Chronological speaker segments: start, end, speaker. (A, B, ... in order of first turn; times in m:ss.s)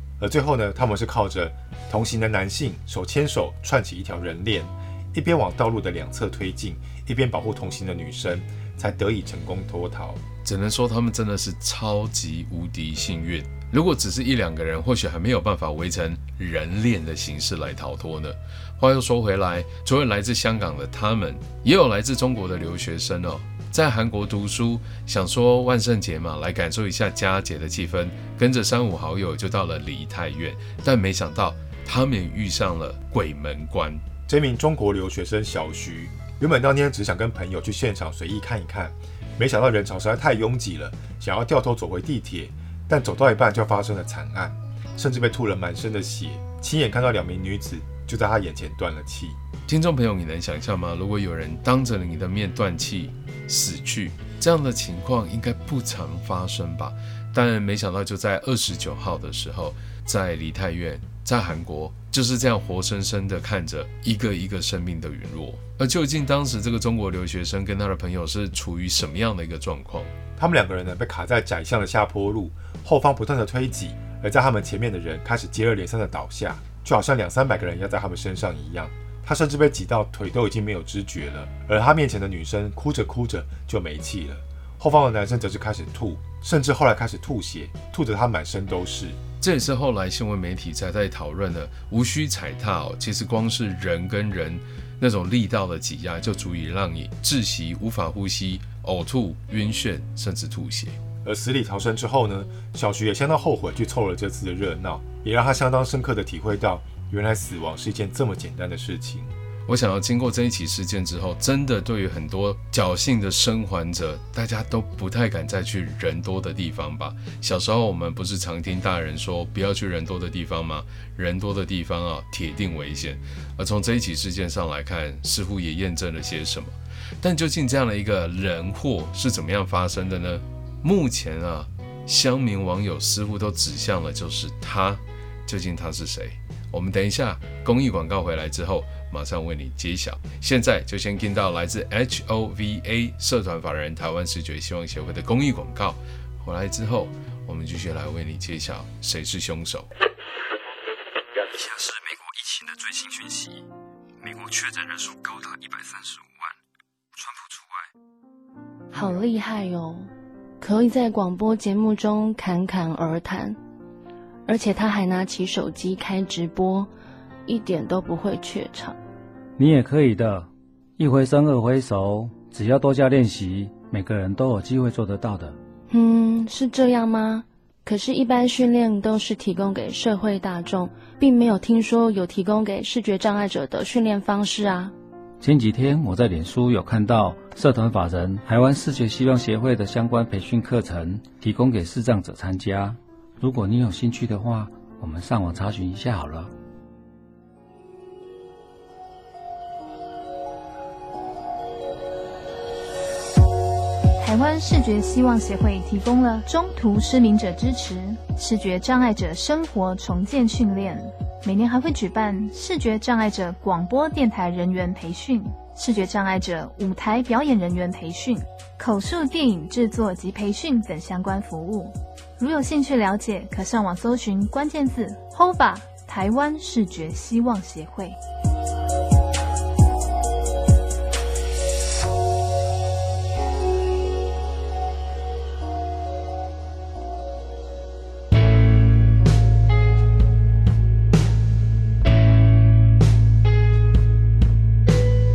0:00.2-0:10.2 A
0:10.4-0:34.0 B
0:34.3-0:49.4 A
0:49.7-1:10.1 B
1:10.4-1:29.2 A
1:29.4-1:41.0 B
1:41.2-1:49.3 A
1:49.7-2:29.9 B
2:31.5-2:33.6 C
2:34.2-2:36.5 C
2:37.2-2:37.9 C
2:38.9-2:43.6 D
2:44.4-2:46.9 D
2:47.4-2:49.0 D
2:49.6-2:55.6 E
2:55.9-3:04.9 D
3:05.4-3:16.5 E
3:24.2-3:48.2 F